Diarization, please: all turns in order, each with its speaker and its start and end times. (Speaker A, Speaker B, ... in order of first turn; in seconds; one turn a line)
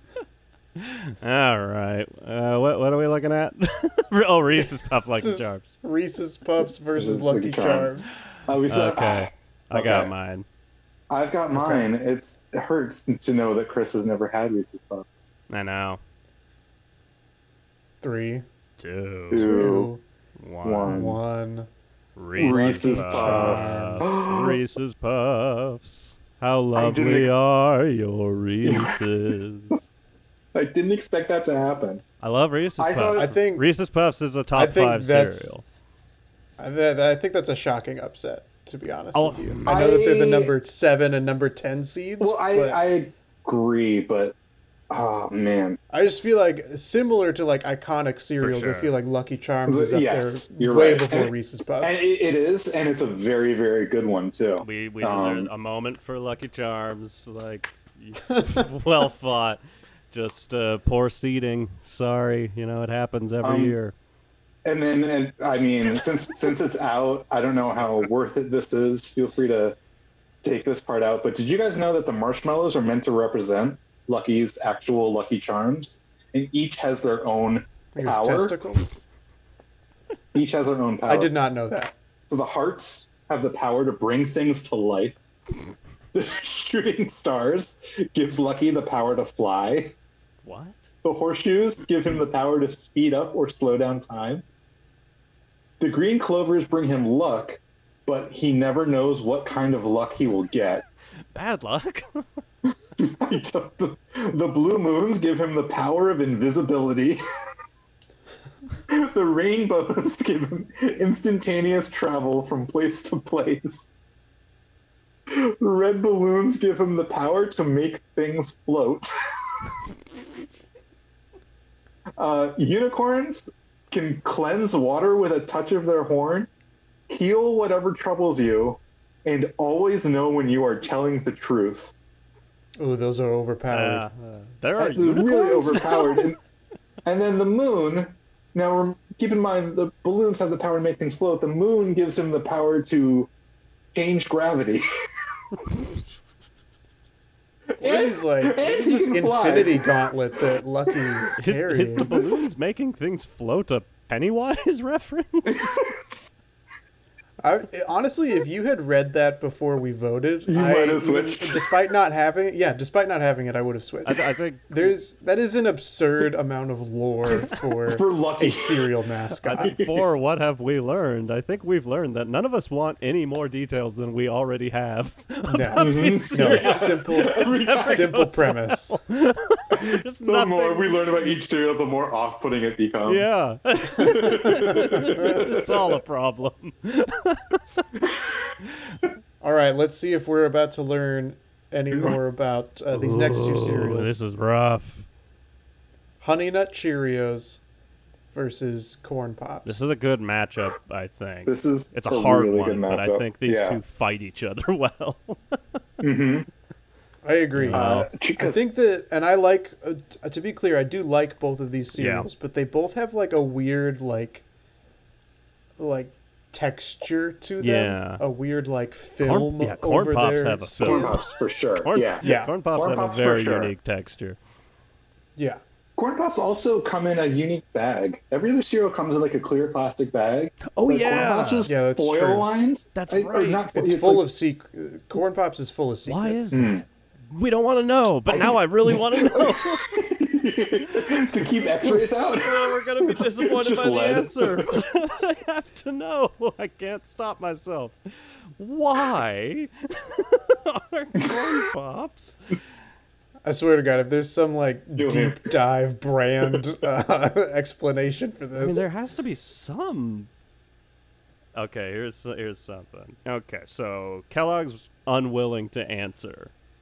Speaker A: 0.8-5.7
Speaker B: 5.1-8.1
Speaker C: 7.0-10.1
Speaker A: 8.7-10.4
Speaker C: 11.1-15.2
Speaker B: 11.5-11.8
Speaker A: 15.5-16.0
Speaker B: 18.0-18.4
Speaker A: 18.8-19.5
Speaker C: 19.3-19.9
Speaker B: 19.3-20.0
Speaker A: 20.4-20.9
Speaker C: 20.6-21.2
Speaker B: 20.8-21.7
Speaker A: 22.1-29.8
Speaker C: 22.4-24.6
Speaker B: 22.4-24.2
Speaker C: 26.7-27.3
Speaker C: 28.6-29.0
Speaker C: 30.5-32.0
Speaker A: 32.2-35.6
Speaker C: 32.8-33.3
Speaker B: 33.1-33.6
Speaker B: 34.5-35.5
Speaker B: 36.6-42.8
Speaker A: 39.1-39.8
Speaker C: 39.6-40.5
Speaker C: 42.2-44.3
Speaker C: 44.9-45.8
Speaker B: 45.9-52.0
Speaker A: 48.4-48.9
Speaker C: 49.7-55.5
Speaker A: 54.6-59.6
Speaker B: 58.3-58.6
Speaker A: 60.1-63.9
Speaker C: 63.4-63.8
Speaker C: 64.6-69.8
Speaker C: 70.4-78.6
Speaker B: 77.9-78.9
Speaker C: 80.3-81.3
Speaker B: 81.0-81.9
Speaker C: 82.3-85.2
Speaker C: 86.1-89.9
Speaker A: 90.4-90.9
Speaker C: 91.0-94.4
Speaker C: 95.8-100.8
Speaker A: 101.3-102.2
Speaker C: 103.0-107.2
Speaker C: 108.9-114.0
Speaker C: 115.3-119.1
Speaker C: 122.2-126.5
Speaker C: 127.1-131.9
Speaker B: 132.8-134.0
Speaker A: 133.7-136.3
Speaker C: 134.8-136.4
Speaker C: 137.0-143.3
Speaker C: 143.9-144.8
Speaker C: 147.8-149.9
Speaker B: 147.8-152.1
Speaker C: 150.9-151.3
Speaker A: 151.4-155.8
Speaker C: 152.0-152.5
Speaker C: 155.4-156.3
Speaker B: 157.4-169.8
Speaker C: 160.5-161.7
Speaker A: 164.0-164.8
Speaker C: 167.3-168.9
Speaker A: 169.4-181.2
Speaker C: 169.6-170.1
Speaker B: 175.5-178.9
Speaker C: 175.8-178.1
Speaker C: 179.7-183.4
Speaker A: 183.0-187.9
Speaker C: 183.9-186.0
Speaker B: 184.0-185.4
Speaker C: 188.0-188.5
Speaker B: 189.4-194.2
Speaker A: 192.9-195.1
Speaker B: 196.2-197.6
Speaker B: 198.3-199.8
Speaker A: 199.6-205.6
Speaker C: 201.4-203.8
Speaker C: 206.0-206.5
Speaker B: 207.2-214.4
Speaker A: 207.6-208.1
Speaker C: 207.7-208.6
Speaker A: 211.9-212.2
Speaker B: 215.8-221.2
Speaker A: 217.6-218.2
Speaker A: 219.2-224.4
Speaker C: 220.8-223.7
Speaker B: 222.2-222.5
Speaker C: 225.9-234.3
Speaker A: 230.6-231.7
Speaker B: 231.7-232.6
Speaker A: 232.9-233.6
Speaker B: 233.7-236.6
Speaker A: 236.1-236.7
Speaker C: 236.5-236.8
Speaker A: 237.3-239.8
Speaker C: 238.3-244.7
Speaker A: 241.8-248.0
Speaker A: 248.6-252.3
Speaker C: 251.2-251.6
Speaker B: 253.4-258.8
Speaker C: 255.0-255.5
Speaker A: 258.6-260.3
Speaker A: 261.5-266.5